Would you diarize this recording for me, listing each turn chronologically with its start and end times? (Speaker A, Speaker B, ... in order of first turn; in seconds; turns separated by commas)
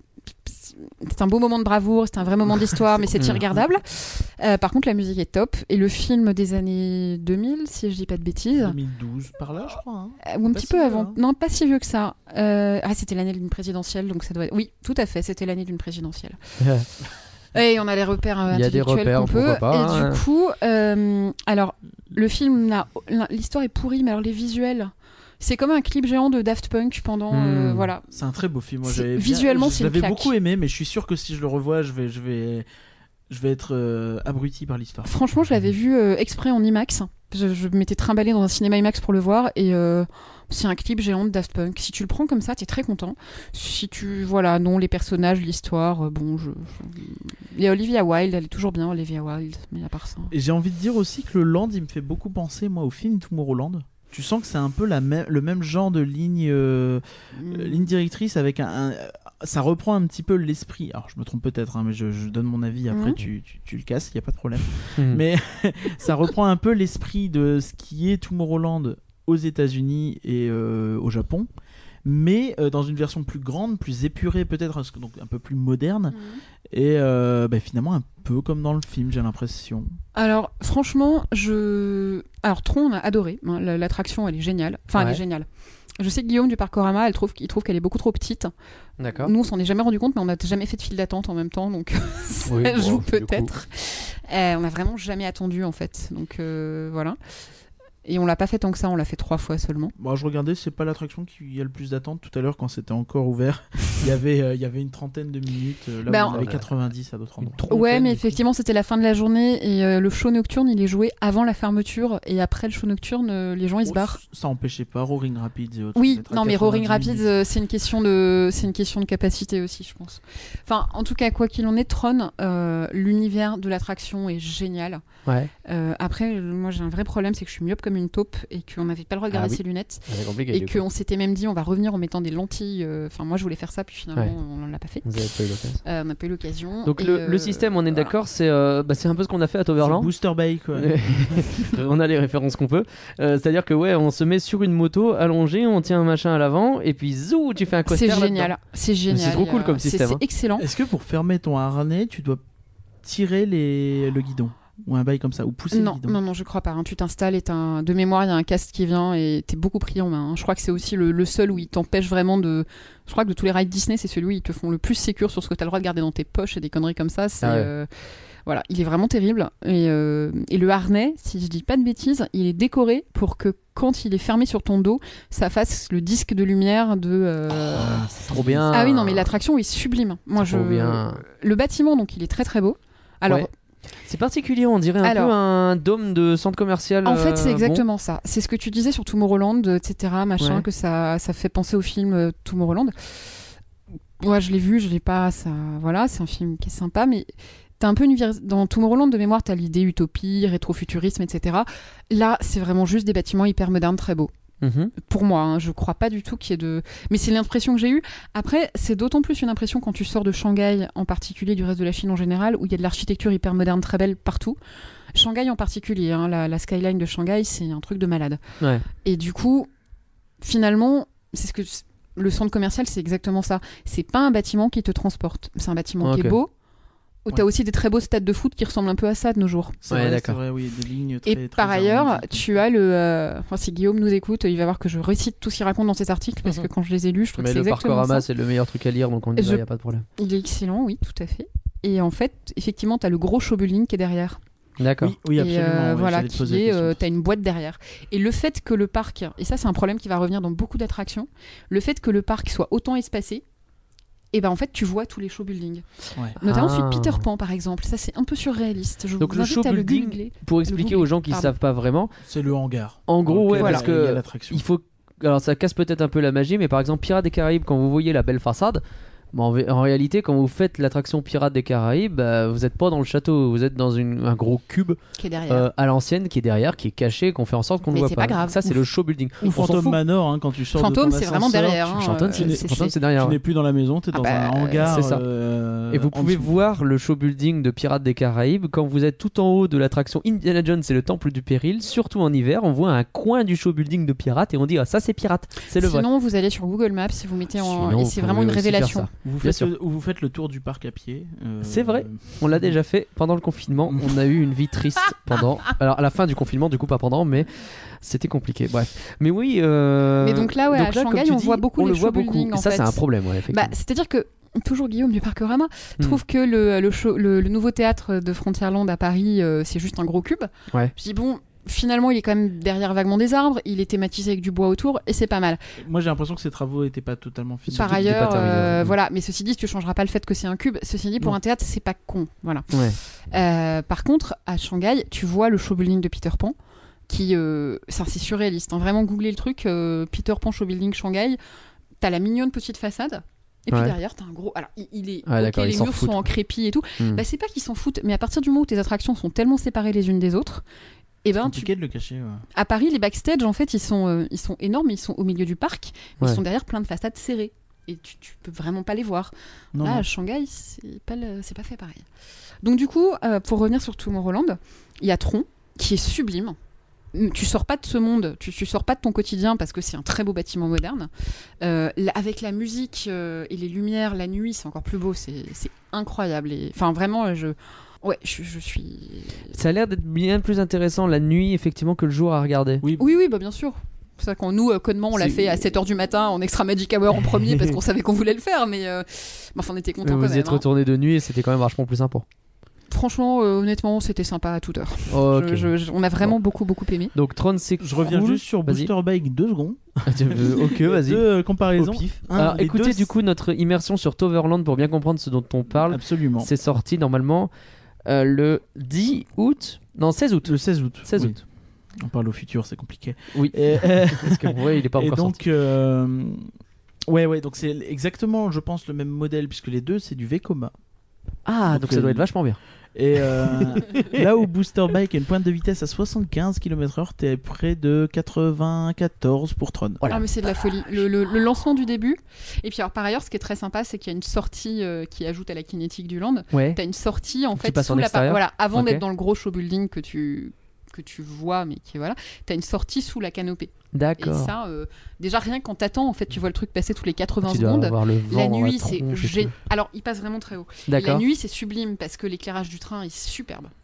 Speaker A: 0.3-8.8, Speaker B: 3.1-3.4, Speaker C: 8.6-11.2, Speaker A: 10.2-16.4, Speaker B: 16.6-16.9, Speaker A: 17.5-28.1, Speaker B: 18.5-20.2, Speaker B: 27.3-27.9, Speaker C: 28.1-32.6, Speaker A: 28.8-30.3, Speaker C: 33.3-35.1, Speaker A: 35.0-50.3, Speaker C: 50.3-71.5, Speaker A: 57.3-57.9, Speaker A: 62.9-63.2, Speaker B: 64.9-65.2, Speaker C: 72.0-76.2, Speaker A: 76.1-76.4, Speaker C: 76.7-79.9, Speaker A: 80.1-85.5, Speaker A: 86.0-88.5, Speaker B: 89.0-89.3, Speaker A: 89.2-97.2, Speaker B: 92.5-93.5, Speaker A: 98.0-99.9, Speaker C: 100.0-107.7, Speaker A: 106.0-106.5, Speaker B: 106.3-106.6, Speaker B: 107.4-108.3, Speaker A: 107.7-114.2, Speaker C: 113.8-117.3, Speaker A: 115.9-125.0, Speaker B: 125.2-125.5, Speaker A: 125.6-135.2, Speaker B: 129.3-130.8, Speaker B: 135.0-135.8, Speaker A: 135.8-138.1, Speaker B: 136.8-140.1, Speaker C: 139.8-141.5, Speaker B: 140.7-148.5, Speaker A: 147.9-150.7, Speaker B: 149.1-150.2, Speaker C: 150.6-152.4, Speaker C: 153.0-156.2, Speaker A: 155.7-167.9, Speaker B: 167.4-167.7, Speaker A: 168.4-178.1, Speaker C: 177.7-178.7, Speaker B: 178.3-179.3, Speaker A: 178.7-183.5, Speaker B: 180.4-181.2, Speaker B: 184.0-187.8, Speaker A: 185.0-185.3, Speaker A: 187.0-192.9, Speaker B: 190.4-190.6, Speaker A: 194.2-204.3, Speaker B: 204.6-204.9, Speaker A: 204.9-214.6, Speaker A: 215.1-218.4, Speaker B: 218.6-218.8, Speaker A: 218.9-219.7, Speaker A: 220.4-226.5, Speaker B: 226.0-226.4, Speaker A: 227.2-229.8, Speaker C: 229.8-232.5, Speaker B: 229.9-230.4, Speaker A: 231.2-238.2, Speaker B: 237.4-240.0, Speaker A: 239.4-239.6, Speaker A: 240.2-244.4, Speaker B: 244.8-245.1, Speaker C: 245.0-247.0, Speaker A: 245.3-253.4, Speaker A: 254.3-255.8, Speaker A: 256.4-261.5, Speaker B: 256.4-257.2, Speaker B: 259.2-262.1, Speaker C: 262.2-264.6, Speaker B: 263.1-268.8, Speaker A: 263.6-263.8, Speaker B: 269.3-279.9, Speaker A: 275.2-275.7, Speaker A: 277.9-278.8, Speaker C: 279.4-286.5, Speaker A: 280.7-282.9, Speaker B: 282.0-283.4, Speaker A: 284.1-285.0, Speaker B: 284.8-285.2, Speaker B: 285.9-296.1, Speaker A: 295.8-299.1, Speaker B: 297.6-299.7, Speaker C: 299.2-302.8, Speaker B: 301.6-313.7, Speaker C: 303.9-304.1, Speaker A: 310.2-325.7, Speaker C: 325.8-328.5, Speaker B: 327.7-328.9, Speaker A: 327.7-336.5, Speaker B: 332.7-333.0, Speaker A: 337.1-341.4, Speaker A: 342.0-350.6, Speaker B: 345.2-346.2, Speaker A: 351.2-351.7, Speaker C: 351.4-352.4, Speaker A: 352.5-362.0, Speaker C: 359.7-360.1, Speaker A: 362.6-366.6, Speaker A: 367.1-371.1, Speaker A: 371.6-379.5, Speaker B: 379.5-382.8, Speaker C: 382.8-383.1, Speaker A: 383.0-390.6, Speaker B: 385.2-385.6, Speaker B: 390.0-392.2, Speaker A: 392.9-397.1, Speaker B: 395.1-396.3, Speaker B: 397.1-398.9, Speaker C: 397.8-403.1, Speaker B: 400.1-401.2, Speaker B: 401.8-407.5, Speaker C: 405.9-406.5, Speaker B: 408.1-411.4, Speaker C: 410.4-416.5, Speaker B: 413.3-415.4, Speaker C: 417.1-420.7, Speaker B: 421.4-422.6, Speaker C: 421.7-422.2, Speaker C: 422.9-430.0, Speaker B: 423.2-424.2, Speaker A: 430.1-453.7, Speaker B: 436.5-436.8, Speaker B: 437.6-439.0, Speaker B: 443.9-444.5, Speaker B: 447.4-449.5, Speaker B: 450.9-451.2